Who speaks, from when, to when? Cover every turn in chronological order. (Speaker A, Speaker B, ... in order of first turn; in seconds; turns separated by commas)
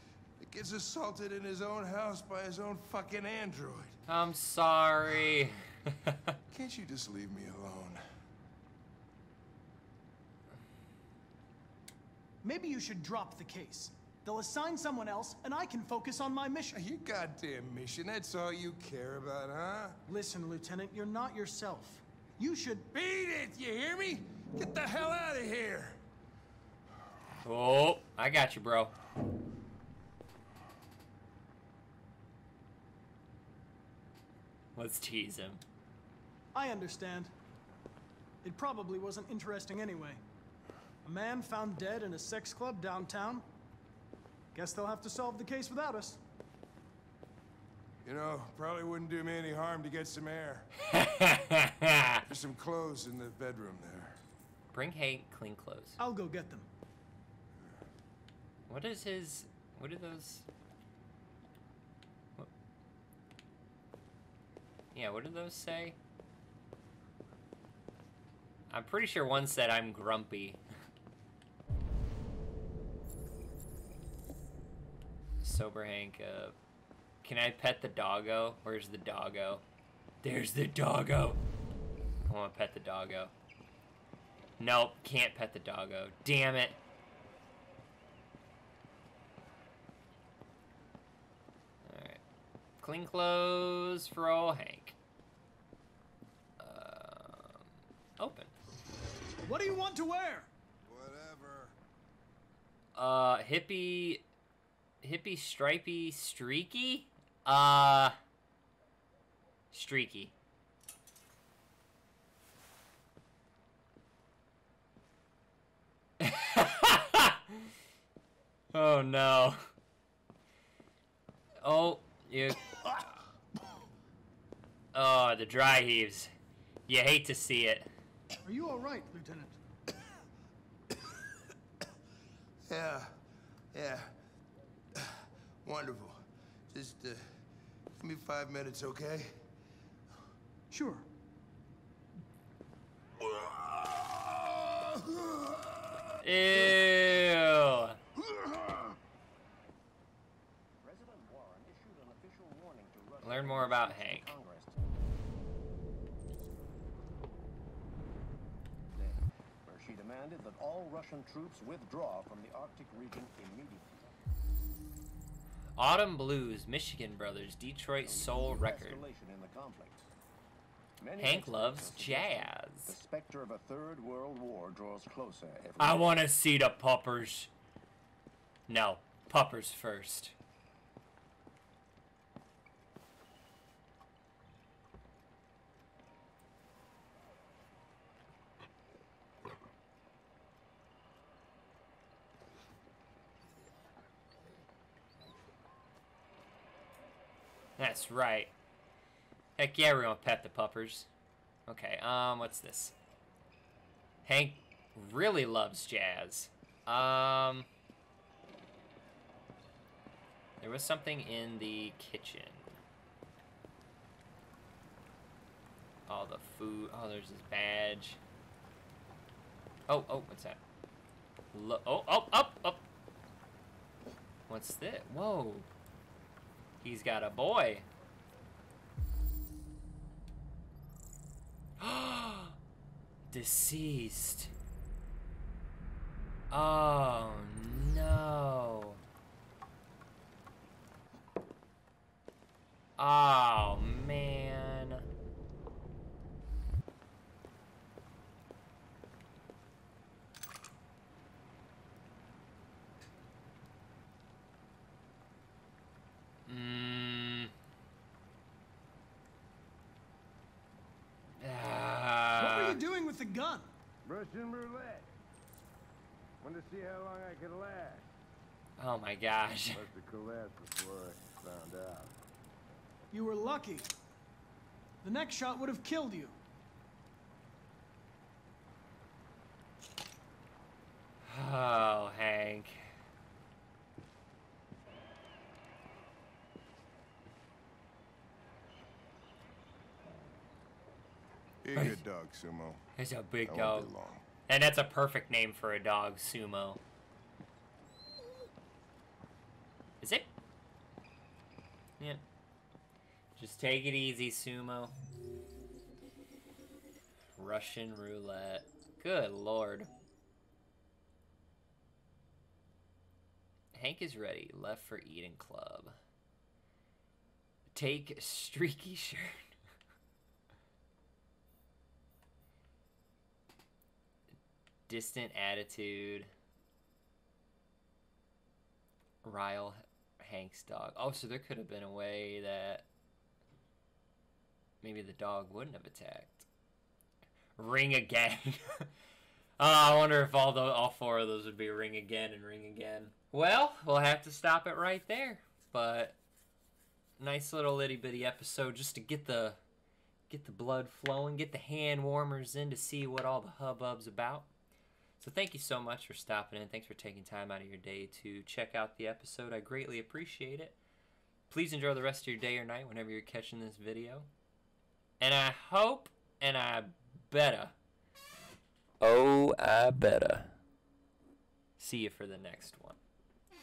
Speaker A: 0.4-4.0, Speaker B: 4.1-6.2, Speaker A: 6.5-8.0, Speaker C: 12.4-16.8, Speaker A: 16.7-20.0, Speaker C: 20.1-22.9, Speaker A: 22.9-26.0, Speaker B: 27.4-28.9, Speaker B: 34.8-35.6, Speaker C: 36.5-37.3, Speaker C: 38.4-40.2, Speaker C: 41.0-43.5, Speaker C: 44.5-46.2, Speaker A: 48.0-50.7, Speaker B: 50.9-52.2, Speaker A: 52.3-54.2, Speaker B: 54.7-56.0, Speaker C: 56.0-56.7, Speaker B: 58.7-60.5, Speaker B: 64.9-66.0, Speaker B: 68.7-70.6, Speaker B: 75.4-76.6, Speaker B: 77.2-79.6, Speaker B: 80.2-81.4, Speaker B: 82.3-83.3, Speaker B: 84.6-86.8, Speaker B: 91.8-92.2, Speaker B: 92.8-95.0, Speaker B: 96.6-98.5, Speaker C: 99.5-100.5, Speaker A: 100.9-101.8, Speaker B: 103.0-104.2, Speaker B: 105.0-108.2, Speaker B: 109.7-110.3, Speaker B: 116.2-117.7, Speaker B: 118.7-119.6, Speaker B: 121.6-122.8, Speaker B: 124.9-126.3, Speaker B: 126.9-127.9, Speaker C: 128.4-129.6, Speaker A: 132.7-133.2, Speaker A: 133.7-134.1, Speaker A: 135.0-137.2, Speaker A: 138.0-139.4, Speaker C: 140.7-141.1, Speaker A: 143.2-146.0, Speaker B: 146.2-148.0, Speaker A: 148.3-148.9, Speaker D: 150.8-154.8, Speaker B: 153.2-154.3, Speaker D: 158.9-164.1, Speaker B: 165.8-169.0, Speaker D: 168.0-170.1, Speaker D: 171.0-176.2, Speaker B: 171.2-173.0, Speaker B: 175.8-177.5, Speaker B: 178.7-180.3, Speaker B: 197.8-198.5, Speaker B: 199.6-201.1, Speaker B: 201.7-203.0, Speaker B: 204.2-207.7, Speaker B: 210.6-212.8, Speaker B: 216.1-218.2, Speaker B: 219.9-220.6, Speaker B: 221.5-222.8, Speaker B: 224.5-225.7, Speaker B: 226.8-227.9, Speaker B: 231.8-232.6, Speaker B: 233.3-234.5, Speaker B: 236.5-239.0, Speaker B: 243.0-245.1, Speaker B: 256.5-257.5, Speaker B: 261.4-262.8, Speaker C: 262.4-263.7, Speaker A: 264.1-265.1, Speaker A: 266.4-268.1, Speaker B: 268.8-269.9, Speaker A: 269.7-272.1, Speaker C: 273.1-273.9, Speaker C: 275.0-276.4, Speaker B: 281.3-282.9, Speaker A: 291.6-292.8, Speaker B: 291.8-292.0, Speaker B: 293.0-293.9, Speaker A: 293.5-294.2, Speaker B: 294.5-296.8, Speaker B: 300.0-300.3, Speaker B: 303.4-304.9, Speaker B: 307.4-309.9, Speaker B: 313.7-315.9, Speaker B: 317.7-319.5, Speaker B: 324.9-326.3, Speaker B: 329.2-332.9, Speaker B: 334.8-336.5, Speaker B: 337.6-338.9, Speaker B: 339.6-346.2, Speaker B: 347.2-349.6, Speaker B: 350.3-354.5, Speaker B: 355.2-360.8, Speaker B: 361.5-364.3, Speaker B: 365.2-367.8, Speaker B: 369.0-370.6, Speaker B: 371.8-373.0